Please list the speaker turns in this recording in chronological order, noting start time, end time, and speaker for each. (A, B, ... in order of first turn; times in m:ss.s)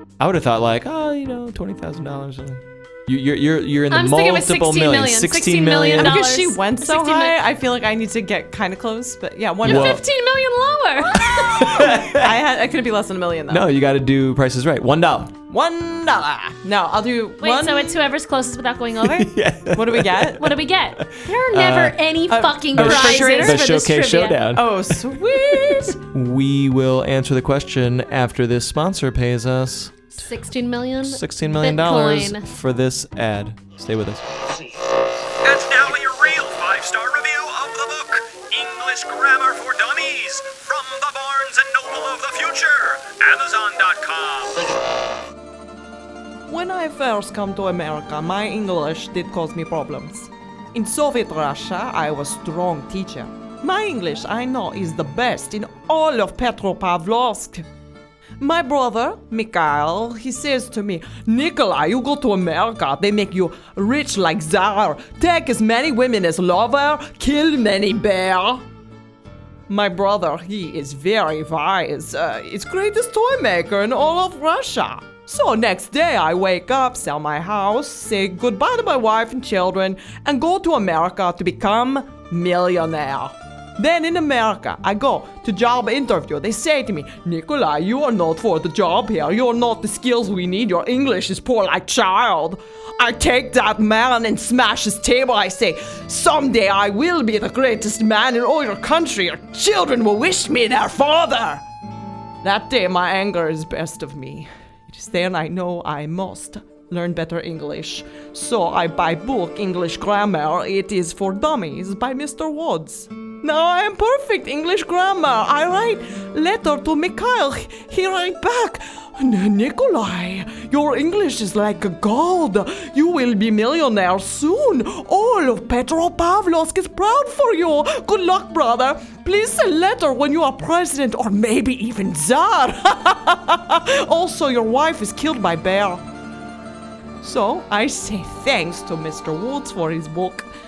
0:00.2-0:06.2 A
0:03.9-0:07.4 B
0:05.9-0:10.0 C
0:09.6-0:10.0 A
0:09.6-0:11.9 B
0:11.2-0:12.4 A
0:11.7-0:13.7 C
0:13.5-0:15.4 A
0:15.5-0:18.0 C
0:17.4-0:19.3 B
0:19.0-0:20.4 A
0:19.8-0:20.5 C
0:20.4-0:24.4 B
0:21.0-0:22.0 A
0:22.3-0:23.7 C
0:22.8-0:30.0 A
0:24.5-0:26.0 C
0:30.2-0:32.5 B
0:31.0-0:34.4 A
0:35.4-0:44.7 D
0:46.5-0:57.6 C
0:58.4-1:08.6 C
1:09.7-1:41.6 C
1:42.4-2:16.0 C
2:17.2-2:20.5 C